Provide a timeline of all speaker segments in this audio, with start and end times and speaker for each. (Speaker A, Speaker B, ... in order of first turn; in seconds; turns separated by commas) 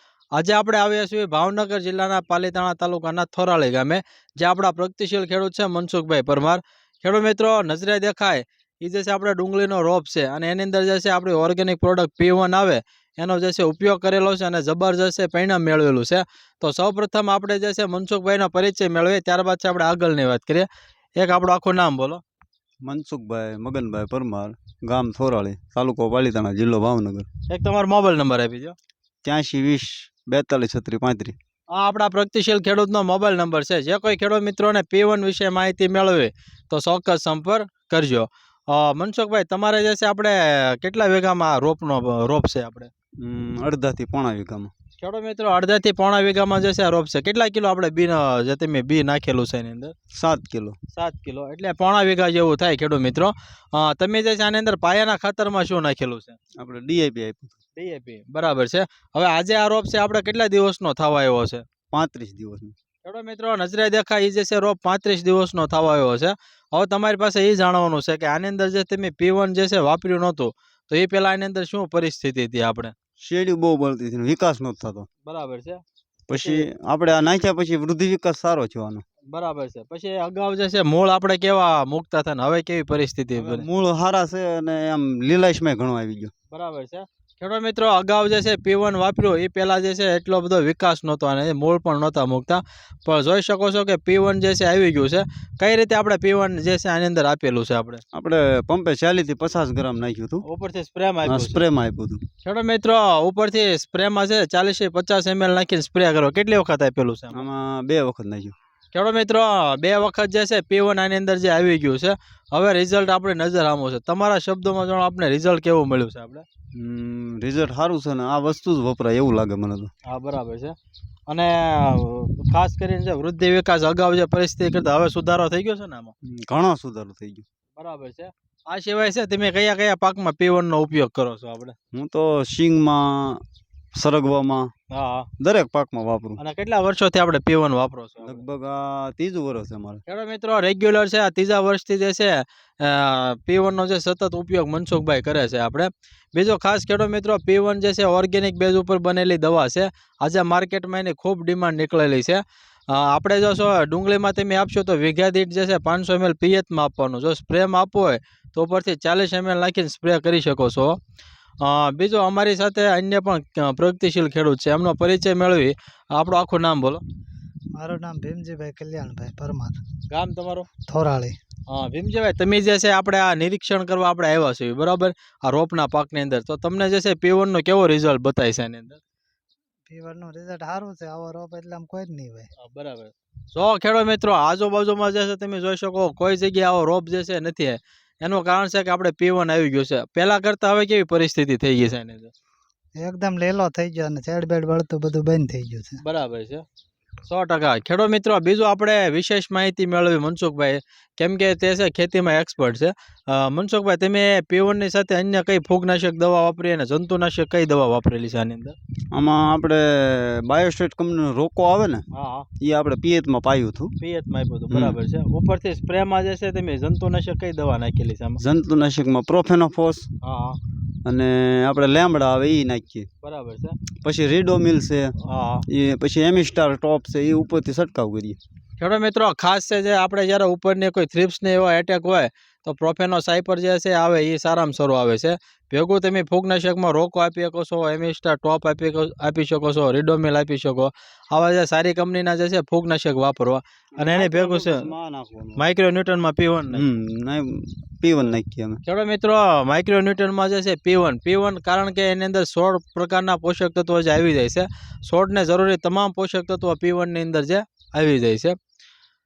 Speaker A: 0.3-22.2, Speaker B: 22.8-27.3, Speaker A: 27.5-28.8, Speaker B: 29.2-31.4, Speaker A: 31.7-42.9, Speaker B: 43.2-44.7, Speaker A: 45.0-50.0, Speaker B: 50.1-50.8, Speaker A: 51.0-56.4, Speaker B: 56.6-57.6, Speaker A: 57.8-61.6, Speaker B: 61.9-62.8, Speaker A: 63.0-72.9, Speaker B: 73.2-75.1, Speaker A: 75.3-75.8, Speaker B: 76.3-79.0, Speaker A: 76.3-76.7, Speaker A: 79.3-83.7, Speaker B: 83.4-86.3, Speaker A: 86.5-98.0, Speaker B: 98.1-100.4, Speaker A: 100.4-101.6, Speaker B: 101.3-102.2, Speaker A: 102.4-107.5, Speaker B: 107.3-108.5, Speaker A: 108.9-116.5, Speaker B: 116.8-119.9, Speaker A: 120.1-120.8, Speaker A: 121.3-126.1, Speaker B: 126.2-127.5, Speaker A: 127.8-131.8, Speaker B: 131.9-133.4, Speaker B: 134.0-134.7, Speaker A: 134.9-135.3, Speaker B: 135.4-136.4, Speaker A: 136.4-138.4, Speaker B: 138.2-140.0, Speaker A: 140.1-161.0, Speaker A: 161.6-167.0, Speaker C: 167.8-169.8, Speaker A: 170.1-170.7, Speaker C: 170.9-171.4, Speaker A: 171.7-179.0, Speaker C: 179.9-182.5, Speaker A: 182.6-192.3, Speaker C: 193.0-196.0, Speaker A: 196.0-196.6, Speaker A: 197.2-208.8, Speaker B: 209.1-212.1, Speaker A: 212.1-212.5, Speaker B: 212.6-213.9, Speaker A: 214.0-218.4, Speaker B: 214.7-215.0, Speaker B: 218.4-220.1, Speaker A: 220.2-220.6, Speaker B: 221.1-223.1, Speaker A: 223.2-223.8, Speaker B: 224.0-225.1, Speaker A: 225.2-225.7, Speaker B: 225.7-228.4, Speaker A: 228.8-244.9, Speaker B: 244.0-245.6, Speaker A: 245.6-246.8, Speaker B: 246.7-248.8, Speaker A: 248.9-258.6